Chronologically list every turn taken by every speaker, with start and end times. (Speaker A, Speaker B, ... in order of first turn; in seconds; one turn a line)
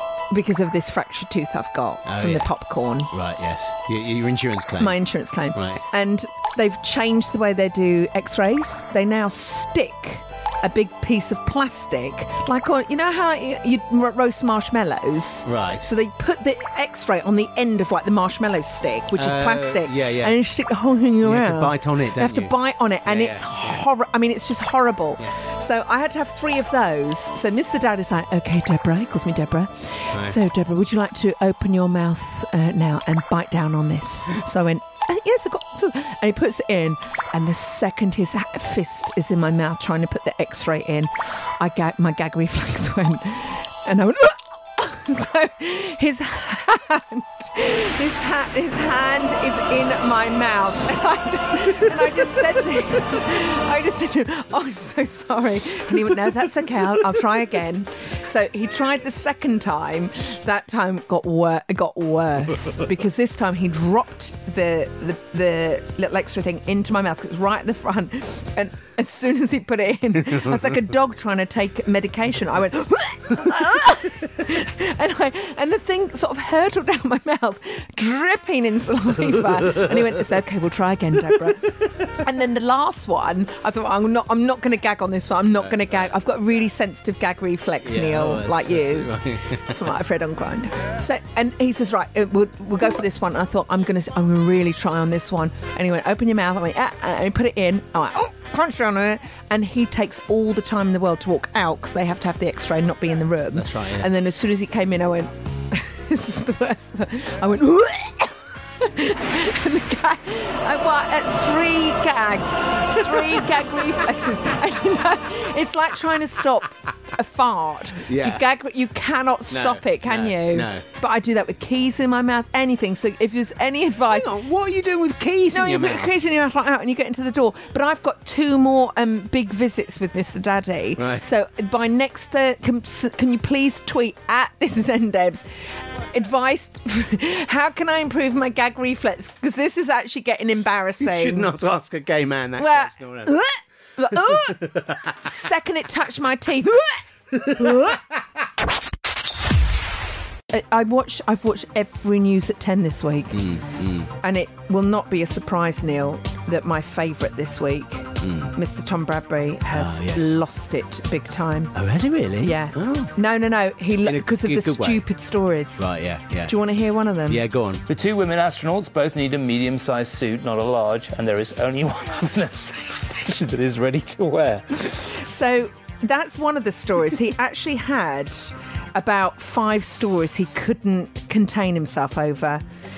Speaker A: 0.3-3.1
Speaker B: 2.1-2.5
Speaker B: 3.1-5.0
Speaker A: 4.8-89.1
Speaker B: 5.5-5.8
Speaker B: 15.4-15.9
Speaker B: 19.1-20.4
Speaker B: 21.2-22.5
Speaker B: 23.1-23.8
Speaker B: 85.6-86.1
Speaker B: 87.8-89.8
Speaker A: 89.7-124.3
Speaker B: 103.5-104.1
Speaker B: 113.0-113.4
Speaker B: 118.1-118.4
Speaker B: 119.5-120.8
Speaker B: 124.1-126.1
Speaker A: 125.5-135.4
Speaker B: 131.0-131.2
Speaker A: 136.1-141.5
Speaker B: 141.0-143.3
Speaker A: 142.6-144.7
Speaker B: 144.2-145.2
Speaker A: 145.2-146.8
Speaker B: 147.3-148.0
Speaker A: 147.5-147.9
Speaker A: 150.5-153.4
Speaker B: 153.3-154.1
Speaker A: 154.2-161.7
Speaker B: 158.2-158.5
Speaker B: 159.7-160.3
Speaker B: 161.7-163.1
Speaker A: 162.4-165.9
Speaker B: 164.0-165.0
Speaker B: 165.8-166.5
Speaker A: 166.4-167.4
Speaker B: 167.3-167.8
Speaker C: 167.9-174.5
Speaker A: 174.9-182.6